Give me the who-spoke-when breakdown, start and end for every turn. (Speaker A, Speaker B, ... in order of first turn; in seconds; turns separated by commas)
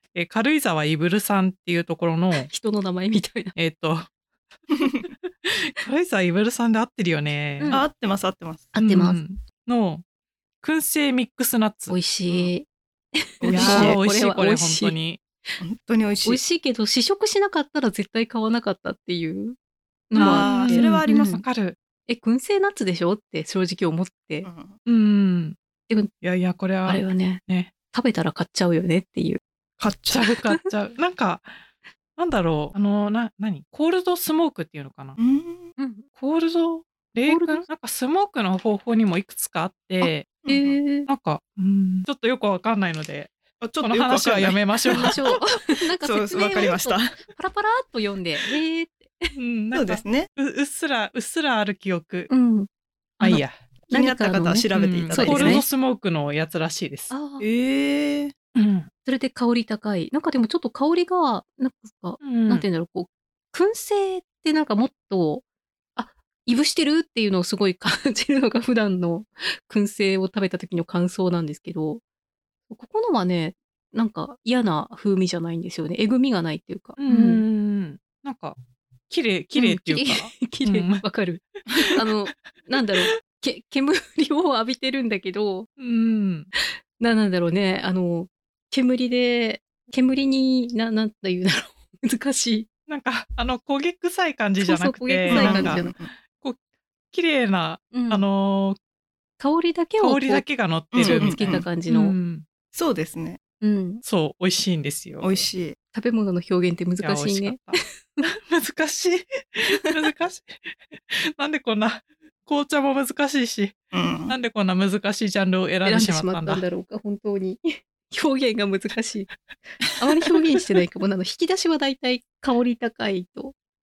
Speaker A: 0.1-2.5, Speaker B: 2.4-3.5, Speaker A: 3.5-4.1, Speaker A: 5.4-7.8, Speaker B: 7.6-7.8, Speaker C: 7.7-8.7, Speaker B: 8.7-9.2, Speaker A: 8.8-10.0, Speaker A: 10.6-12.0, Speaker B: 11.9-14.9, Speaker C: 13.4-14.0, Speaker A: 13.5-15.2, Speaker C: 15.6-16.4, Speaker B: 16.2-19.6, Speaker B: 20.1-21.4, Speaker A: 20.1-21.8, Speaker C: 20.2-21.3, Speaker B: 22.1-24.5, Speaker C: 24.4-24.8, Speaker A: 24.9-25.6, Speaker A: 26.2-27.7, Speaker B: 26.9-29.4, Speaker C: 29.8-30.3, Speaker A: 30.1-31.5, Speaker A: 32.2-35.2, Speaker C: 35.2-35.7, Speaker B: 35.8-36.1, Speaker A: 36.2-40.3, Speaker B: 37.3-37.7, Speaker B: 40.0-41.1, Speaker C: 40.5-40.8, Speaker A: 41.1-45.4, Speaker C: 43.6-45.2, Speaker B: 44.9-49.3, Speaker C: 46.0-47.2, Speaker A: 49.4-52.3, Speaker C: 49.7-50.3, Speaker B: 52.3-52.7, Speaker A: 53.2-53.5, Speaker B: 53.2-55.7, Speaker C: 53.9-55.6, Speaker A: 54.7-57.1, Speaker B: 57.1-57.5, Speaker C: 57.4-58.3, Speaker A: 58.5-58.9, Speaker B: 59.1-65.4, Speaker A: 62.2-62.6, Speaker B: 66.0-72.0, Speaker B: 72.7-77.4, Speaker A: 77.0-78.6, Speaker A: 79.1-81.1, Speaker B: 79.5-85.7, Speaker A: 85.8-86.5, Speaker B: 86.5-92.7, Speaker A: 92.9-96.6, Speaker B: 94.6-95.9, Speaker C: 95.3-96.1, Speaker A: 97.1-98.8, Speaker B: 97.9-98.2, Speaker B: 99.4-100.4, Speaker A: 100.0-102.4, Speaker C: 100.9-101.7, Speaker B: 101.0-102.2, Speaker C: 102.7-103.4, Speaker B: 103.6-104.0, Speaker A: 104.0-105.5, Speaker C: 105.2-105.8, Speaker B: 105.9-108.2, Speaker A: 107.0-113.8, Speaker C: 113.9-114.3, Speaker A: 114.3-116.6, Speaker B: 115.8-119.3, Speaker B: 120.0-123.5